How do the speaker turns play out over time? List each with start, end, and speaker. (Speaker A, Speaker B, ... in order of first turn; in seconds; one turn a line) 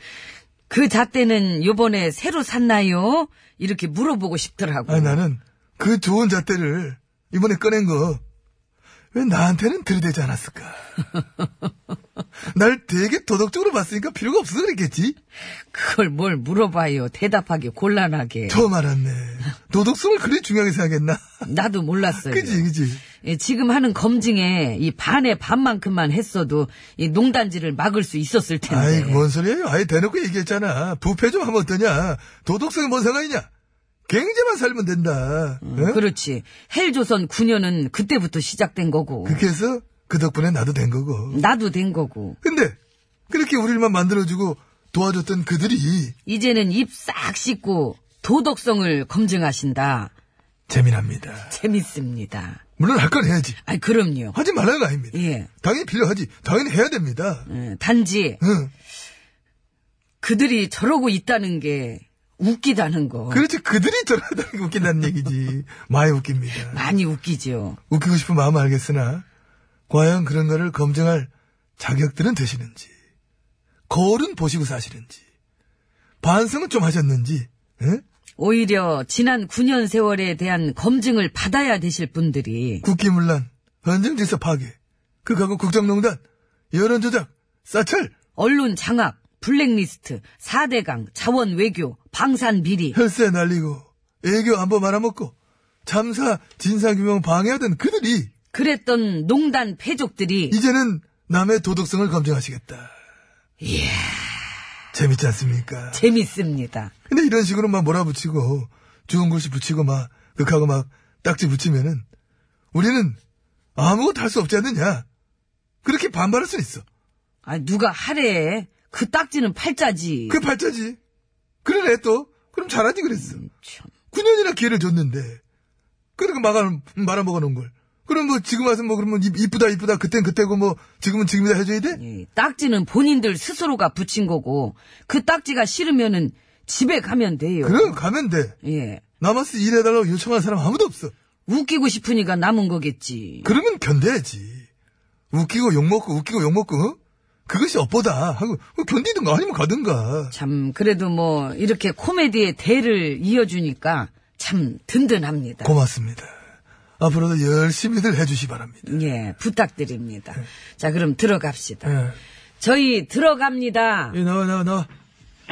Speaker A: 0.7-5.2
Speaker B: 4.8-8.2
Speaker B: 9.1-10.8
Speaker B: 12.5-15.2
Speaker A: 15.5-18.6
Speaker B: 18.5-21.2
Speaker A: 21.4-29.3
Speaker B: 22.1-23.0
Speaker B: 28.7-33.5
Speaker B: 34.1-36.0
Speaker A: 35.6-39.5
Speaker B: 39.2-41.4
Speaker A: 41.3-42.4
Speaker B: 42.4-42.8
Speaker B: 43.3-46.1
Speaker A: 46.2-50.1
Speaker B: 50.7-51.5
Speaker A: 51.5-52.6
Speaker B: 52.8-53.6
Speaker A: 53.6-54.4
Speaker B: 54.3-57.5
Speaker A: 55.1-55.5
Speaker A: 57.5-58.4
Speaker B: 58.4-58.7
Speaker A: 60.2-63.4
Speaker B: 63.3-66.8
Speaker A: 66.6-67.8
Speaker B: 67.9-69.2
Speaker B: 69.9-72.9
Speaker B: 73.9-75.2
Speaker B: 76.2-78.0
Speaker A: 78.4-82.8
Speaker B: 82.8-86.2
Speaker B: 86.7-88.1
Speaker A: 88.3-93.0
Speaker B: 92.9-95.3
Speaker B: 95.8-98.3
Speaker A: 98.5-100.5
Speaker B: 100.5-102.9
Speaker A: 103.6-104.5
Speaker B: 104.9-106.0
Speaker A: 105.9-106.9
Speaker B: 107.1-112.0
Speaker B: 112.7-113.2
Speaker B: 113.8-115.0
Speaker B: 115.8-116.8
Speaker A: 117.4-120.4
Speaker B: 120.3-121.0
Speaker B: 121.6-123.4
Speaker A: 123.2-123.9
Speaker B: 124.1-125.4
Speaker B: 126.2-132.0
Speaker A: 131.9-138.0
Speaker B: 137.6-138.5
Speaker A: 138.6-139.0
Speaker B: 139.2-141.1
Speaker A: 141.4-143.5
Speaker B: 143.4-144.7
Speaker B: 145.3-150.3
Speaker A: 150.3-155.7
Speaker B: 155.6-156.3
Speaker B: 157.0-158.9
Speaker A: 158.8-161.9
Speaker B: 161.8-162.2
Speaker A: 162.6-164.2
Speaker B: 164.1-164.9